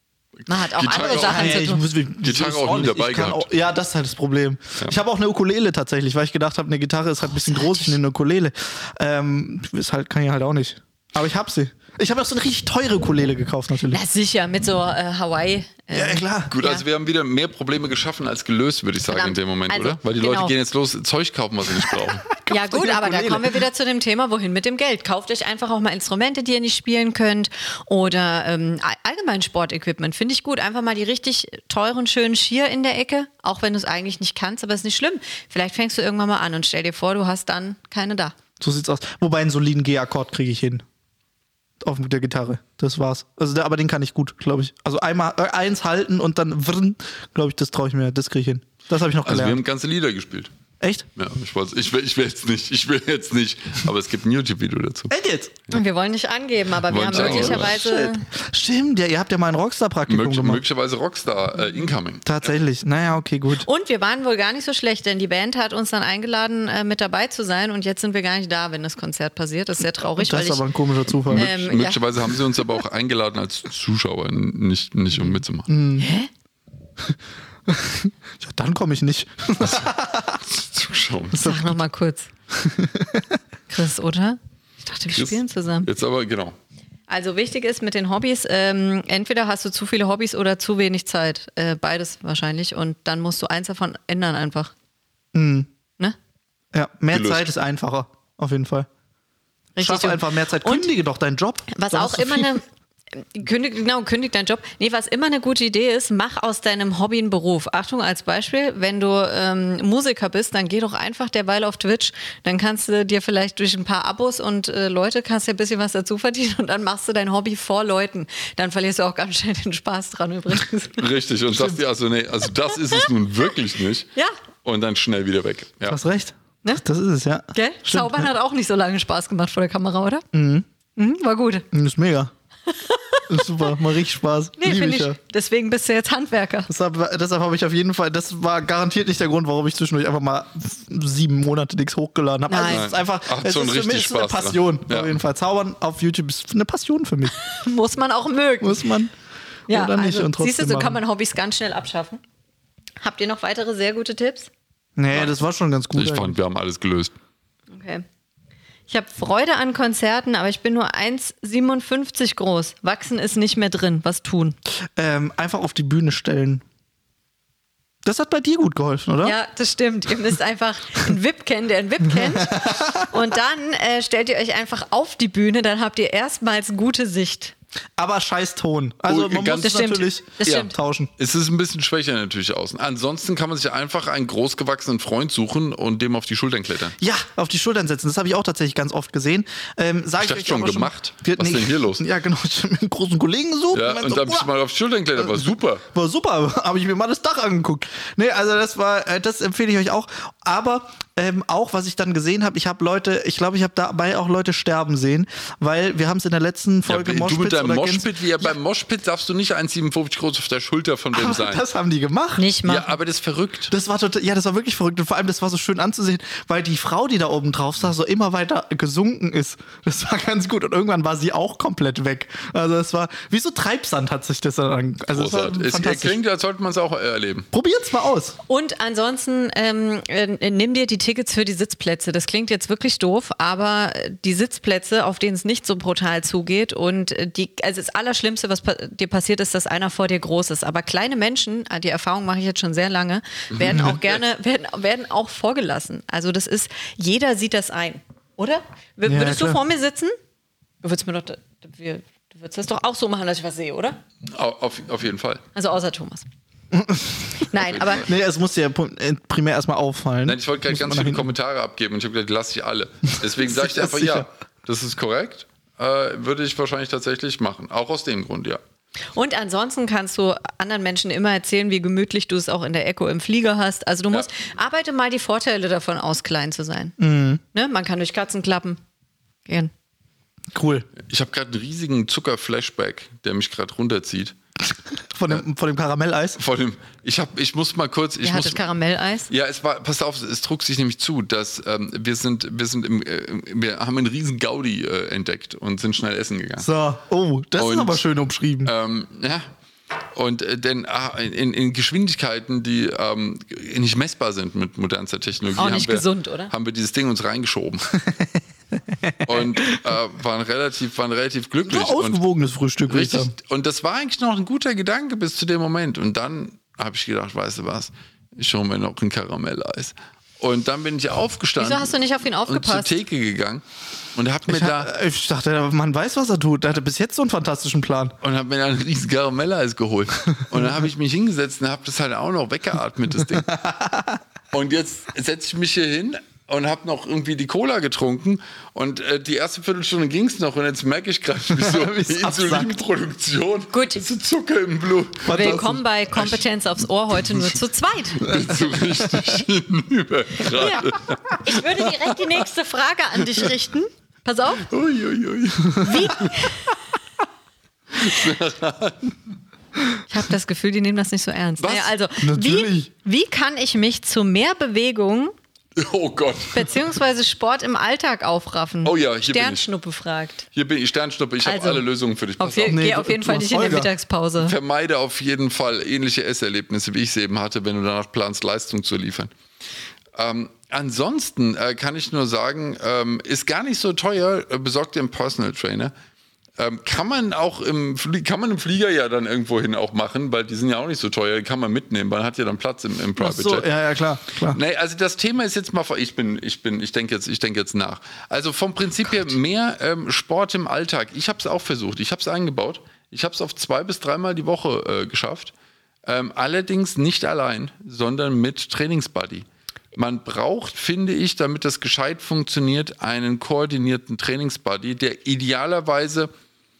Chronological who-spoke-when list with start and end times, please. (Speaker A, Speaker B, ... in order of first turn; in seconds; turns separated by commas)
Speaker A: 0.5-1.8, Speaker B: 0.6-3.5, Speaker C: 0.9-14.0, Speaker A: 7.4-7.9, Speaker A: 13.9-16.8, Speaker C: 15.9-16.5, Speaker B: 16.5-22.3, Speaker A: 19.1-20.5, Speaker C: 22.3-23.6, Speaker A: 22.5-38.4, Speaker C: 38.6-40.8, Speaker C: 41.8-49.6, Speaker B: 49.2-50.5, Speaker C: 50.8-51.1, Speaker B: 51.2-55.1, Speaker C: 55.1-55.6, Speaker A: 55.7-58.3, Speaker B: 56.9-57.8, Speaker C: 57.1-60.6, Speaker B: 60.1-62.3, Speaker C: 62.2-63.7, Speaker A: 63.6-70.6, Speaker C: 70.2-71.5, Speaker A: 71.3-72.0, Speaker B: 71.3-75.7, Speaker C: 75.7-76.1, Speaker A: 76.0-76.3, Speaker C: 77.7-80.4, Speaker B: 80.5-81.5, Speaker C: 81.3-81.8, Speaker A: 81.4-82.3, Speaker C: 82.5-83.4, Speaker A: 83.7-85.9, Speaker B: 85.1-86.6, Speaker A: 87.1-94.7, Speaker C: 95.3-95.7, Speaker C: 96.7-98.9, Speaker B: 97.1-97.5, Speaker A: 99.8-100.9, Speaker C: 99.8-102.6, Speaker A: 101.7-102.6, Speaker A: 103.2-121.1, Speaker B: 121.0-124.1, Speaker B: 124.7-126.0, Speaker C: 125.9-128.3, Speaker A: 127.5-130.2, Speaker C: 130.3-130.7, Speaker A: 131.0-131.7, Speaker C: 131.7-132.3, Speaker A: 132.7-133.7, Speaker C: 133.3-135.2, Speaker A: 134.6-136.7, Speaker C: 136.7-147.4, Speaker A: 142.5-142.8, Speaker B: 142.7-145.2, Speaker A: 147.4-148.8, Speaker C: 148.6-149.1, Speaker C: 149.7-151.0, Speaker A: 149.7-152.2, Speaker A: 153.0-154.5, Speaker C: 155.0-156.3, Speaker B: 155.9-157.1, Speaker A: 157.7-158.1, Speaker A: 158.9-164.6, Speaker C: 165.0-166.6, Speaker C: 168.1-169.4, Speaker A: 169.2-177.5, Speaker C: 172.3-173.1, Speaker C: 178.0-181.1, Speaker B: 179.1-179.9, Speaker A: 179.6-180.7, Speaker B: 180.4-187.0, Speaker C: 187.0-194.5, Speaker B: 190.2-192.0, Speaker B: 193.7-195.8, Speaker C: 195.2-208.5, Speaker B: 206.9-211.6, Speaker C: 211.1-212.5, Speaker A: 212.4-212.9, Speaker B: 212.7-213.7, Speaker C: 213.7-226.2, Speaker B: 225.1-227.5, Speaker C: 227.5-228.4, Speaker A: 228.5-250.1, Speaker B: 243.6-243.9, Speaker C: 243.7-244.0, Speaker C: 249.1-249.6, Speaker A: 250.8-254.0, Speaker B: 254.3-255.4, Speaker A: 255.6-256.3, Speaker C: 256.7-261.3, Speaker A: 257.4-258.1, Speaker B: 260.2-268.6, Speaker C: 263.3-264.3, Speaker A: 269.1-277.0, Speaker C: 277.0-277.4, Speaker A: 277.5-278.8, Speaker C: 280.5-280.9, Speaker B: 281.0-284.4, Speaker C: 285.1-286.4, Speaker B: 286.4-288.6, Speaker A: 288.2-289.3, Speaker B: 289.3-296.7, Speaker C: 296.6-298.7, Speaker B: 297.6-298.0, Speaker B: 298.6-299.5, Speaker B: 300.1-307.9, Speaker A: 305.6-306.5, Speaker C: 308.9-309.8, Speaker B: 309.2-312.2, Speaker C: 311.7-313.3, Speaker B: 312.9-321.9, Speaker A: 321.6-323.0, Speaker B: 322.5-323.6, Speaker B: 324.1-324.9, Speaker C: 324.5-328.1, Speaker B: 328.2-333.5, Speaker C: 333.4-334.2, Speaker B: 334.5-345.6, Speaker C: 341.5-342.8, Speaker A: 343.7-344.0, Speaker C: 345.2-345.8, Speaker A: 345.3-348.3, Speaker B: 348.2-352.4, Speaker A: 350.5-354.7, Speaker B: 354.7-356.4, Speaker A: 355.8-356.7, Speaker B: 357.9-359.1, Speaker A: 360.1-365.3, Speaker B: 361.6-361.9, Speaker C: 362.2-362.9, Speaker B: 365.8-366.7, Speaker A: 366.5-370.5, Speaker B: 368.8-369.7, Speaker B: 370.5-372.8, Speaker A: 371.4-371.8, Speaker A: 372.4-374.6, Speaker C: 372.7-373.9, Speaker B: 374.4-379.3, Speaker B: 380.1-385.9, Speaker B: 386.6-393.7, Speaker C: 393.2-394.6, Speaker B: 394.5-405.5, Speaker B: 406.1-416.3